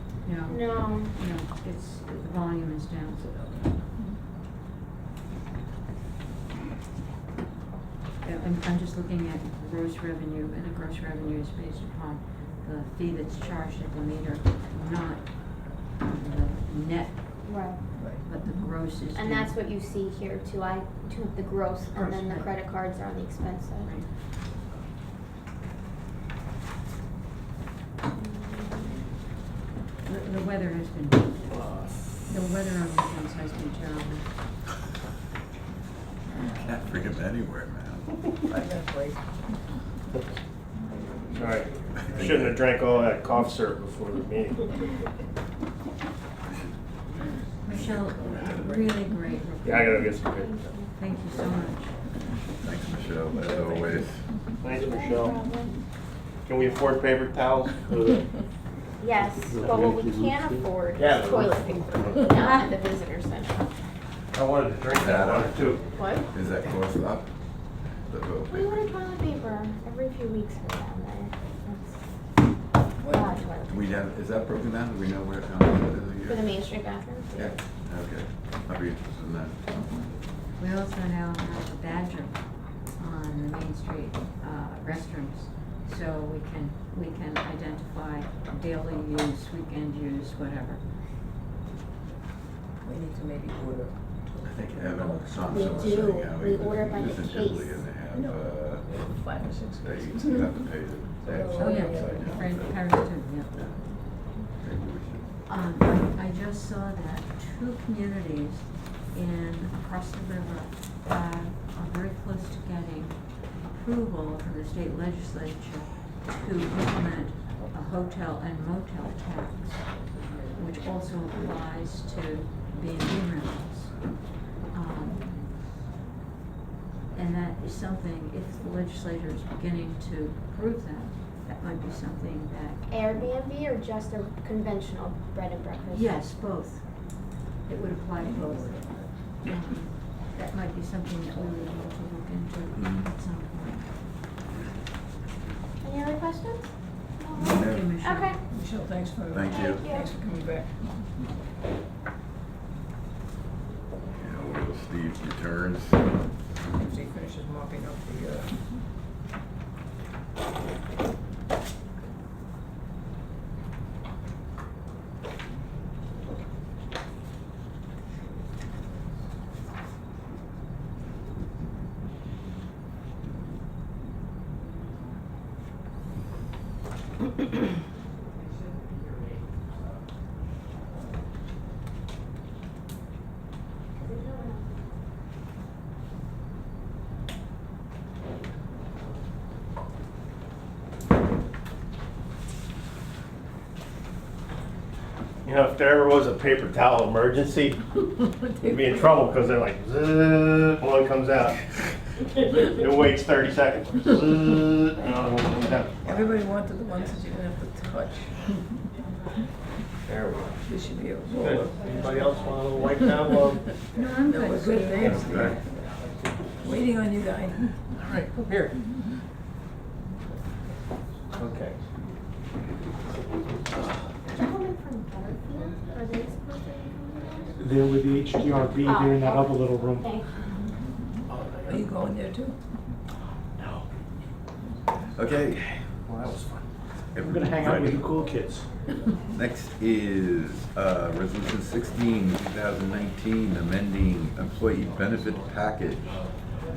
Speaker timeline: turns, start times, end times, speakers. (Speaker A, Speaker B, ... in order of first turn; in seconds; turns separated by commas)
Speaker A: 0.2-3.5, Speaker B: 0.5-1.1, Speaker C: 3.2-4.2, Speaker A: 8.2-19.6, Speaker B: 17.4-17.8, Speaker C: 17.9-18.3, Speaker B: 19.1-23.9, Speaker A: 21.9-22.5, Speaker B: 28.1-29.0, Speaker A: 30.1-31.5, Speaker A: 32.3-34.3, Speaker D: 36.5-38.2, Speaker C: 38.5-39.3, Speaker C: 41.0-42.2, Speaker E: 41.3-44.6, Speaker D: 42.1-42.5, Speaker D: 46.5-46.8, Speaker A: 47.6-50.1, Speaker E: 49.6-50.5, Speaker B: 50.2-50.9, Speaker A: 51.0-51.9, Speaker D: 52.6-54.2, Speaker A: 53.5-54.0, Speaker E: 54.6-55.4, Speaker B: 54.7-55.8, Speaker E: 56.5-58.2, Speaker B: 59.0-63.6, Speaker F: 59.7-60.4, Speaker E: 61.0-62.3, Speaker E: 64.3-65.8, Speaker D: 65.0-65.8, Speaker B: 66.0-66.3, Speaker D: 66.3-67.3, Speaker D: 68.1-68.8, Speaker B: 68.5-72.0, Speaker C: 73.0-73.5, Speaker B: 73.1-73.8, Speaker D: 73.7-76.5, Speaker B: 76.3-77.6, Speaker D: 77.3-79.7, Speaker A: 80.6-90.8, Speaker C: 92.8-96.0, Speaker D: 94.4-98.9, Speaker B: 95.5-97.8, Speaker C: 98.1-100.7, Speaker D: 99.8-102.8, Speaker C: 101.2-102.4, Speaker B: 101.5-102.0, Speaker A: 101.6-103.5, Speaker D: 103.5-105.3, Speaker A: 105.5-124.0, Speaker A: 124.7-125.5, Speaker A: 127.1-132.9, Speaker B: 132.9-136.1, Speaker A: 135.9-136.8, Speaker A: 137.7-143.9, Speaker C: 138.2-139.1, Speaker D: 142.8-143.1, Speaker B: 145.8-148.4, Speaker A: 147.3-148.4, Speaker D: 147.4-147.9, Speaker C: 148.5-150.9, Speaker D: 149.3-149.8, Speaker B: 149.5-150.1, Speaker D: 154.2-156.0, Speaker C: 156.7-158.6, Speaker B: 183.9-184.7, Speaker E: 195.4-197.9, Speaker C: 198.2-199.2, Speaker E: 198.6-201.7, Speaker E: 202.4-206.0, Speaker C: 206.0-208.6, Speaker E: 210.1-210.6, Speaker C: 210.6-211.7, Speaker E: 211.3-213.8, Speaker A: 213.9-215.2, Speaker C: 214.2-215.9, Speaker E: 215.1-215.6, Speaker D: 215.1-215.6, Speaker C: 216.6-217.9, Speaker E: 218.0-218.8, Speaker E: 221.3-221.8, Speaker B: 224.3-227.6, Speaker F: 227.6-230.1, Speaker B: 228.8-230.3, Speaker E: 231.3-231.8, Speaker C: 231.7-232.6, Speaker E: 233.6-233.8, Speaker D: 235.1-235.8, Speaker E: 236.1-236.7, Speaker D: 237.1-238.0, Speaker F: 237.2-238.7, Speaker D: 239.3-246.2